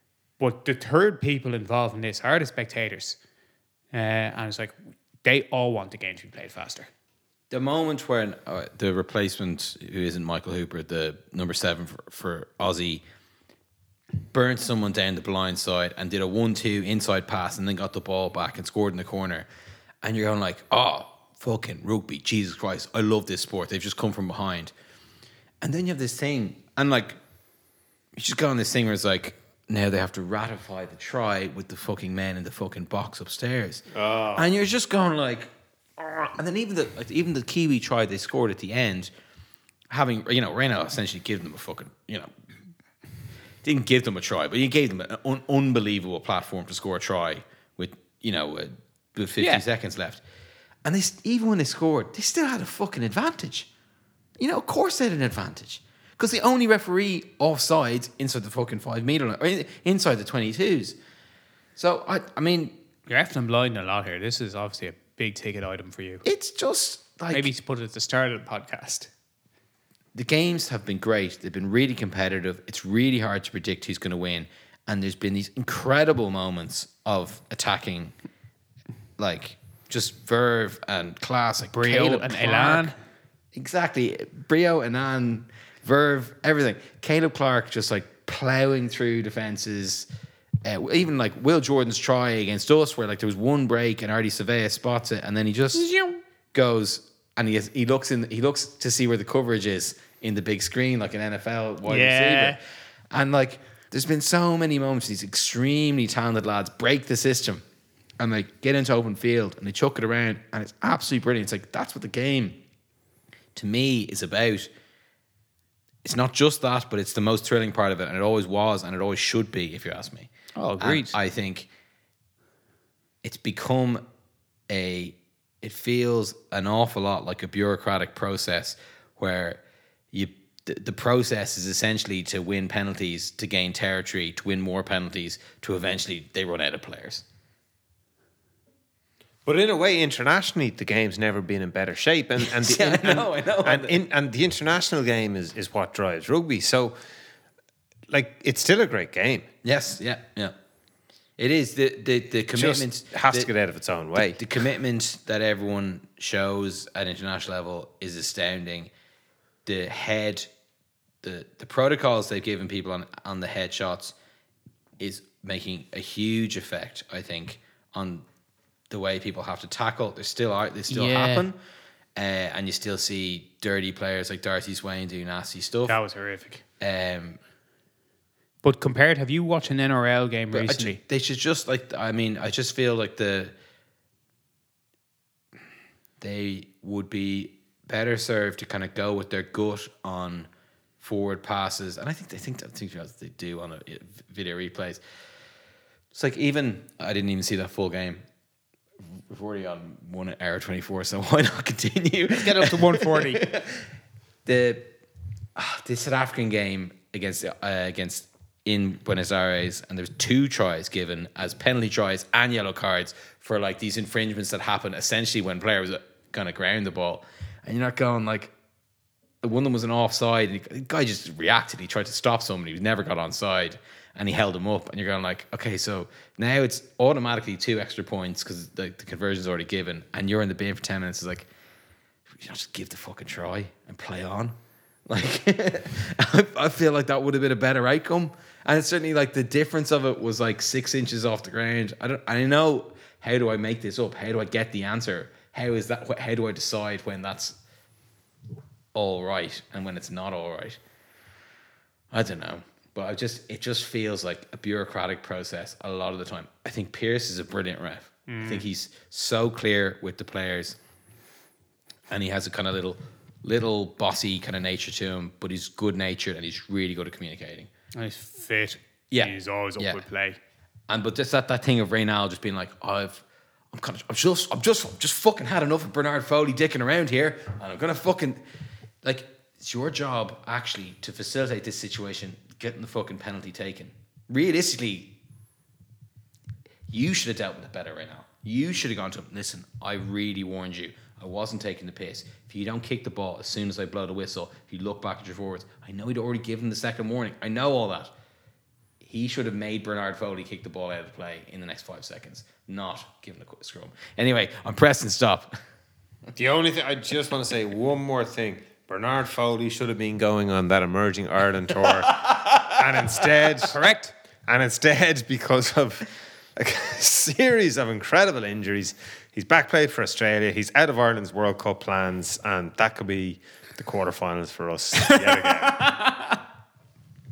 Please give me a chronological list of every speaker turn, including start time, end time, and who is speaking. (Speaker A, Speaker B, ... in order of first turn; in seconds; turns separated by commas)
Speaker A: 0.4-3.2, Speaker A: 3.9-6.9, Speaker B: 7.5-13.0, Speaker B: 14.3-19.5, Speaker B: 20.0-24.7, Speaker B: 25.6-27.2, Speaker B: 28.1-39.1, Speaker C: 33.9-34.5, Speaker B: 39.9-42.3, Speaker B: 43.6-50.2, Speaker A: 49.4-49.6, Speaker B: 50.8-53.7, Speaker B: 54.4-61.0, Speaker B: 61.8-62.8, Speaker A: 63.1-66.2, Speaker B: 66.2-67.5, Speaker A: 67.3-69.1, Speaker B: 70.1-78.1, Speaker B: 79.2-82.9, Speaker A: 81.7-82.9, Speaker B: 83.5-90.1, Speaker B: 90.6-95.9, Speaker A: 95.7-96.2, Speaker B: 96.5-102.6, Speaker A: 101.8-102.6, Speaker B: 103.1-107.6, Speaker B: 108.2-112.6, Speaker B: 113.5-114.7, Speaker B: 116.0-121.7, Speaker A: 120.5-121.1, Speaker B: 123.2-124.0, Speaker B: 124.7-129.6, Speaker B: 130.1-137.2, Speaker C: 139.4-147.0, Speaker B: 142.4-144.0, Speaker C: 148.1-149.5, Speaker B: 149.6-150.5, Speaker B: 151.4-153.5, Speaker C: 152.5-154.4, Speaker B: 154.2-158.9, Speaker B: 159.7-160.5, Speaker B: 161.2-164.1, Speaker B: 165.0-168.2, Speaker B: 168.9-171.6, Speaker A: 170.9-171.4, Speaker B: 172.2-176.0, Speaker A: 175.9-176.6, Speaker B: 176.8-177.4, Speaker A: 178.6-181.0, Speaker B: 180.5-183.5, Speaker B: 186.2-190.5, Speaker B: 191.0-195.0, Speaker B: 196.1-198.2, Speaker B: 199.3-203.9, Speaker A: 202.3-203.4, Speaker B: 204.4-204.9, Speaker B: 205.6-218.5, Speaker B: 219.4-231.5, Speaker B: 232.3-234.6, Speaker B: 235.1-247.6, Speaker B: 248.9-250.8, Speaker B: 252.1-260.8, Speaker A: 258.3-258.6, Speaker B: 262.1-267.7, Speaker A: 267.9-270.4, Speaker B: 269.1-270.0, Speaker B: 270.9-278.4, Speaker B: 279.0-285.1, Speaker B: 286.9-298.1, Speaker B: 299.0-305.6, Speaker C: 306.4-313.8, Speaker B: 312.1-312.7, Speaker A: 313.6-314.1, Speaker C: 314.4-325.9, Speaker A: 325.7-326.3